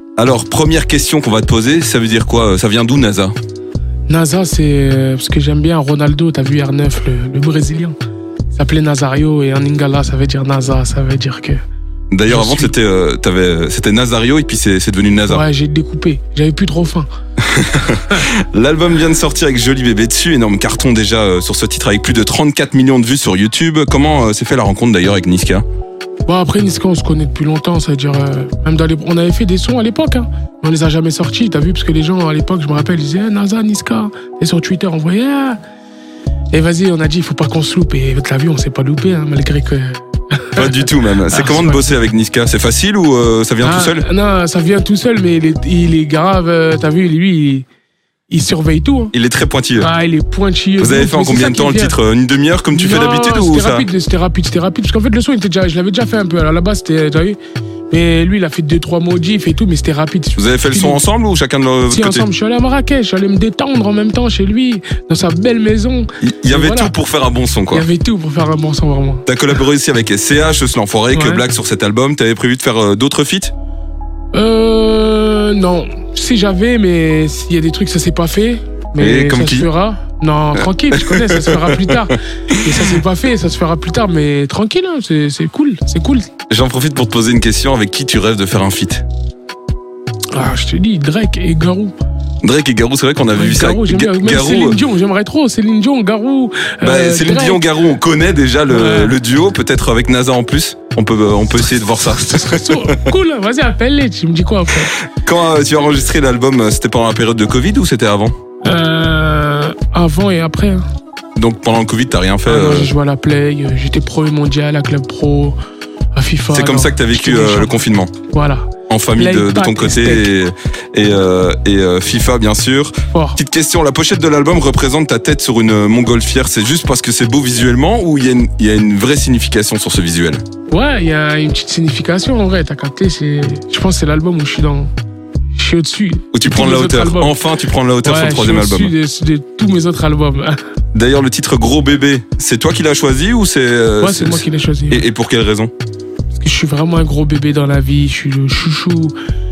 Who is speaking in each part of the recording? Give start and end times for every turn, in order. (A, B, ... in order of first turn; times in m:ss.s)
0:00.2-0:03.3 A
0:04.1-0:08.0 B
0:08.5-0:11.6 B
0:12.1-0:15.4 A
0:12.3-0:12.7 B
0:15.3-0:17.1 B
0:17.4-0:25.6 A
0:26.2-0:35.6 B
0:36.5-0:41.8 B
0:40.6-0:44.0 A
0:43.6-0:47.6 B
0:48.3-0:49.1 B
0:49.1-0:49.9 A
0:49.8-0:52.0 B
0:50.8-0:53.9 A
0:52.7-0:57.4 B
0:57.9-1:01.0 B
1:00.4-1:02.2 A
1:01.9-1:06.9 B
1:06.2-1:07.8 A
1:07.7-1:09.3 B
1:09.2-1:13.5 A
1:11.1-1:11.4 B
1:14.3-1:26.3 B
1:19.0-1:19.7 A
1:20.9-1:21.9 A
1:22.5-1:23.0 A
1:26.5-1:29.0 A
1:30.3-1:32.0 B
1:32.4-1:34.8 A
1:33.3-1:37.6 B
1:36.8-1:43.1 A
1:38.7-1:39.2 B
1:42.1-1:44.9 B
1:45.2-1:48.3 A
1:48.6-1:50.8 B
1:51.4-1:52.9 A
1:52.4-1:55.6 B
1:56.1-2:00.3 B
1:56.5-1:58.1 A
1:58.9-2:10.4 A
2:03.1-2:03.4 B
2:10.7-2:14.9 B
2:15.5-2:17.4 B
2:16.3-2:18.9 A
2:18.0-2:20.6 B
2:20.9-2:25.7 A
2:24.0-2:25.0 B
2:26.3-2:29.1 B